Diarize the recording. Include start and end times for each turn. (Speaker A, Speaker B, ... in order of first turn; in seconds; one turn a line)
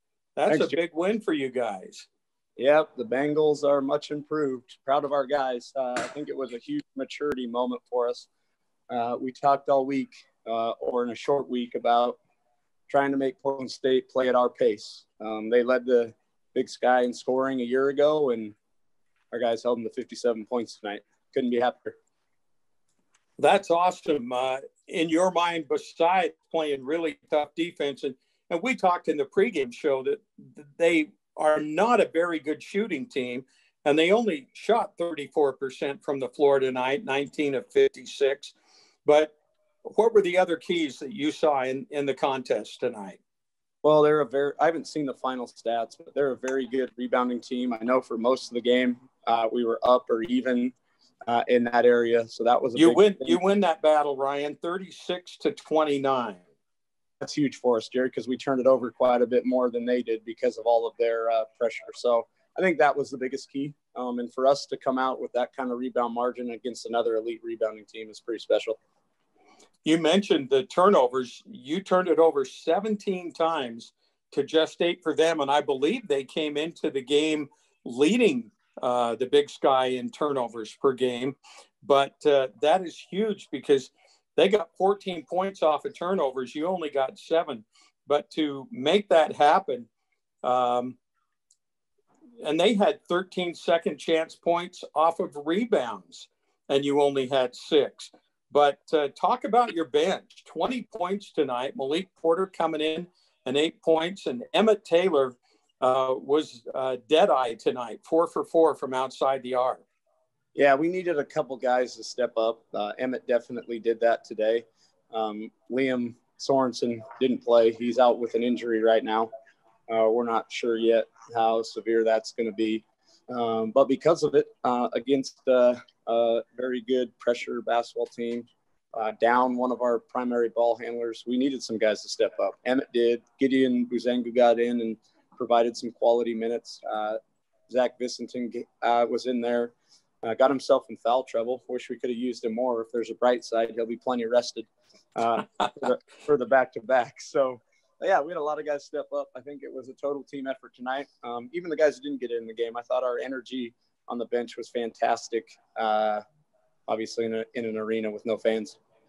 Speaker A: 0.4-2.1
Speaker B: 0.5-0.8
Speaker B: 2.6-8.3
Speaker B: 8.9-12.2
Speaker B: 12.9-18.6
Speaker B: 19.3-21.9
Speaker A: 23.4-38.5
Speaker A: 39.0-39.3
Speaker A: 39.9-43.2
Speaker B: 43.8-50.8
Speaker B: 51.3-53.4
Speaker A: 52.8-56.4
Speaker B: 57.2-68.8
Speaker A: 69.8-89.9
Speaker A: 90.4-91.0
Speaker A: 92.4-109.8
Speaker B: 110.5-119.3
Speaker B: 119.9-137.2
Speaker B: 137.7-156.2
Speaker B: 156.9-158.8